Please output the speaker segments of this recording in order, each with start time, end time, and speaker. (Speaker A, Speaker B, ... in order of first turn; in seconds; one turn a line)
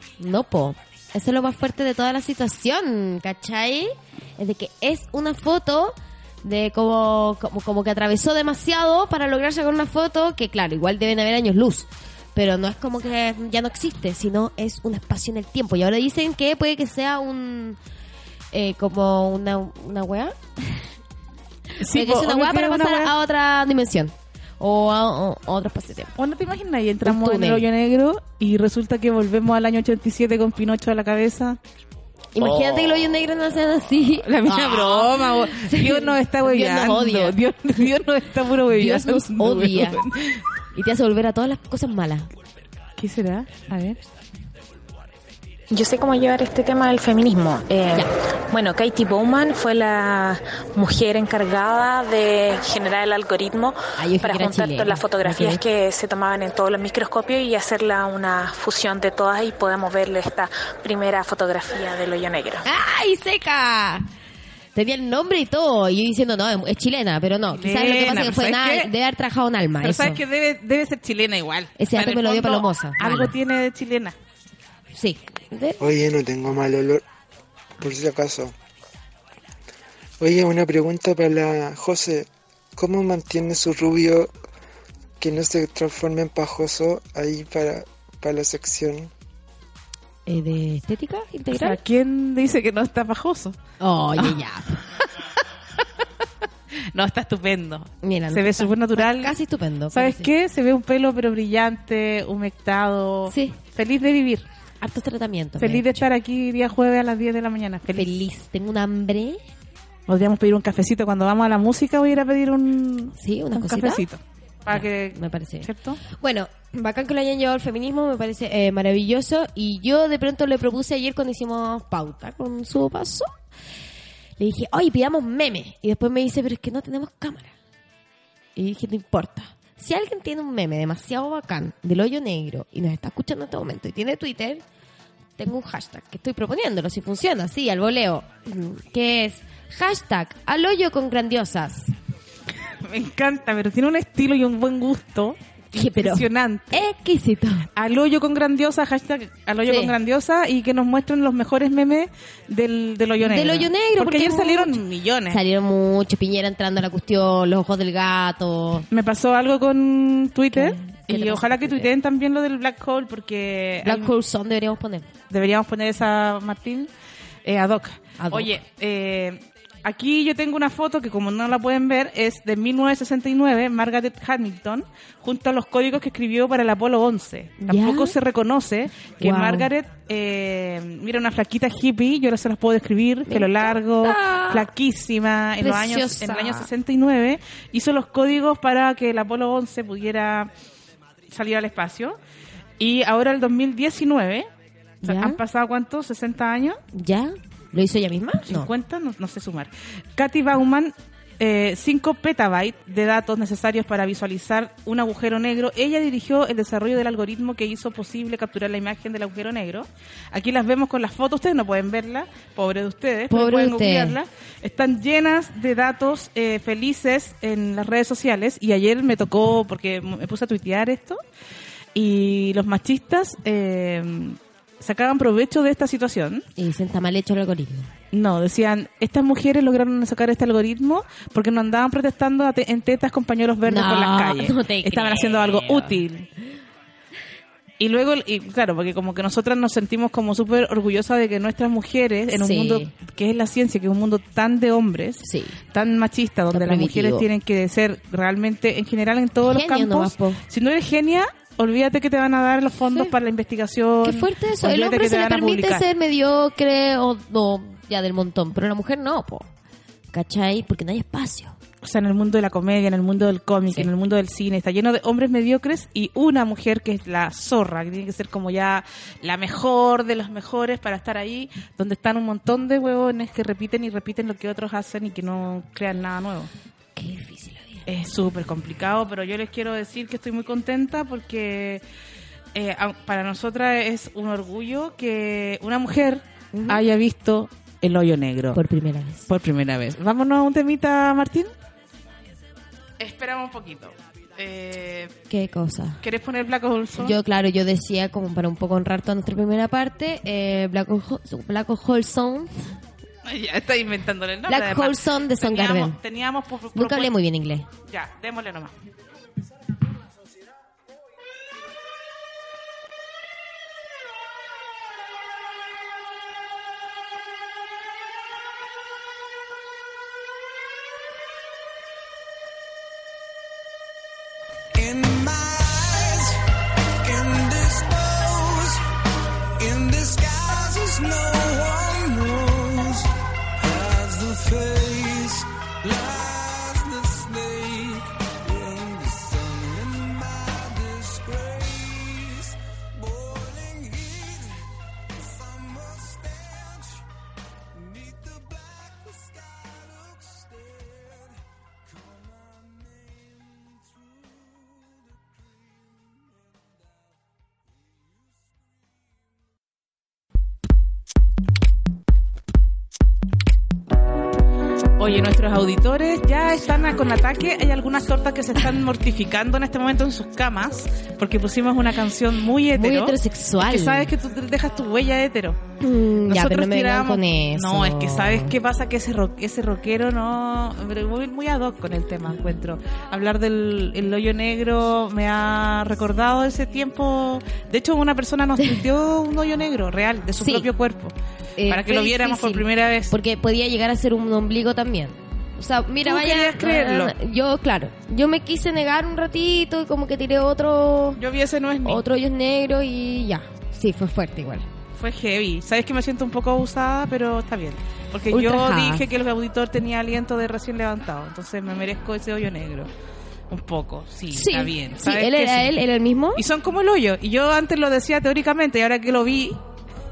Speaker A: 0.2-17.8
Speaker A: 18.5-20.8
Speaker A: 21.8-26.1
Speaker B: 21.8-23.1
Speaker B: 26.2-31.6
Speaker A: 27.0-27.6
Speaker A: 32.3-37.8
Speaker B: 32.4-33.2
Speaker B: 34.2-40.4
Speaker A: 38.7-40.0
Speaker A: 40.7-42.3
Speaker B: 43.0-44.0
Speaker C: 45.7-62.6
Speaker A: 54.0-55.6
Speaker A: 62.6-64.1
Speaker A: 64.7-70.2
Speaker B: 67.5-68.9
Speaker B: 69.8-74.2
Speaker A: 71.8-73.3
Speaker A: 74.9-75.8
Speaker D: 75.8-77.0
Speaker D: 77.8-78.5
Speaker D: 80.2-84.3
Speaker D: 85.2-89.1
Speaker A: 90.3-91.8
Speaker B: 91.5-93.6
Speaker A: 93.8-94.8
Speaker B: 95.0-95.8
Speaker B: 96.9-99.3
Speaker A: 98.0-100.3
Speaker B: 99.9-104.4
Speaker A: 103.3-103.6
Speaker A: 104.8-106.0
Speaker B: 105.6-108.1
Speaker A: 107.9-109.4
Speaker B: 110.1-116.0
Speaker A: 113.1-114.0
Speaker A: 114.7-123.3
Speaker A: 124.4-127.5
Speaker A: 128.6-134.6
Speaker A: 135.4-141.9
Speaker B: 142.8-146.8
Speaker A: 145.7-147.7
Speaker B: 147.7-155.4
Speaker A: 149.6-149.9
Speaker A: 153.2-158.8
Speaker B: 158.9-164.1
Speaker A: 160.5-161.9
Speaker A: 163.8-165.1
Speaker B: 165.3-166.9
Speaker B: 167.4-190.5
Speaker A: 168.2-168.6
Speaker A: 177.6-178.2
Speaker A: 179.2-179.7
Speaker A: 183.3-184.7
Speaker A: 185.6-186.7
Speaker B: 191.3-192.2
Speaker B: 192.8-194.5
Speaker A: 195.0-195.4
Speaker B: 195.0-196.8
Speaker A: 196.9-198.7
Speaker B: 198.5-221.2
Speaker A: 213.3-214.2
Speaker B: 221.9-226.4
Speaker A: 226.6-227.9
Speaker B: 228.1-236.3
Speaker A: 233.6-236.0
Speaker B: 237.8-255.8
Speaker A: 242.3-242.9
Speaker A: 245.2-245.6
Speaker A: 246.5-247.2
Speaker A: 249.4-250.4
Speaker A: 252.9-253.1
Speaker A: 254.0-259.5
Speaker A: 260.1-261.6
Speaker B: 261.8-276.5
Speaker A: 276.9-277.8
Speaker B: 277.9-281.8
Speaker B: 282.5-288.6
Speaker A: 286.5-286.8
Speaker A: 288.5-289.3
Speaker B: 289.3-291.5
Speaker B: 293.0-295.1
Speaker A: 295.3-296.0
Speaker B: 296.0-297.1
Speaker A: 297.0-302.5
Speaker B: 303.2-307.1
Speaker A: 304.5-306.0
Speaker A: 306.7-307.7
Speaker B: 307.9-308.7
Speaker E: 324.7-326.4
Speaker E: 327.0-328.8
Speaker E: 329.6-347.0
Speaker E: 347.7-357.0
Speaker B: 365.0-375.6
Speaker A: 372.7-374.1
Speaker A: 375.8-378.5
Speaker B: 376.3-391.1
Speaker A: 390.4-390.7
Speaker A: 391.6-401.2
Speaker B: 391.7-393.1
Speaker B: 396.0-397.1
Speaker B: 401.2-402.0
Speaker A: 401.8-404.7
Speaker B: 404.9-412.9
Speaker A: 408.3-409.1
Speaker B: 413.5-415.7
Speaker A: 414.3-416.4
Speaker B: 416.4-419.6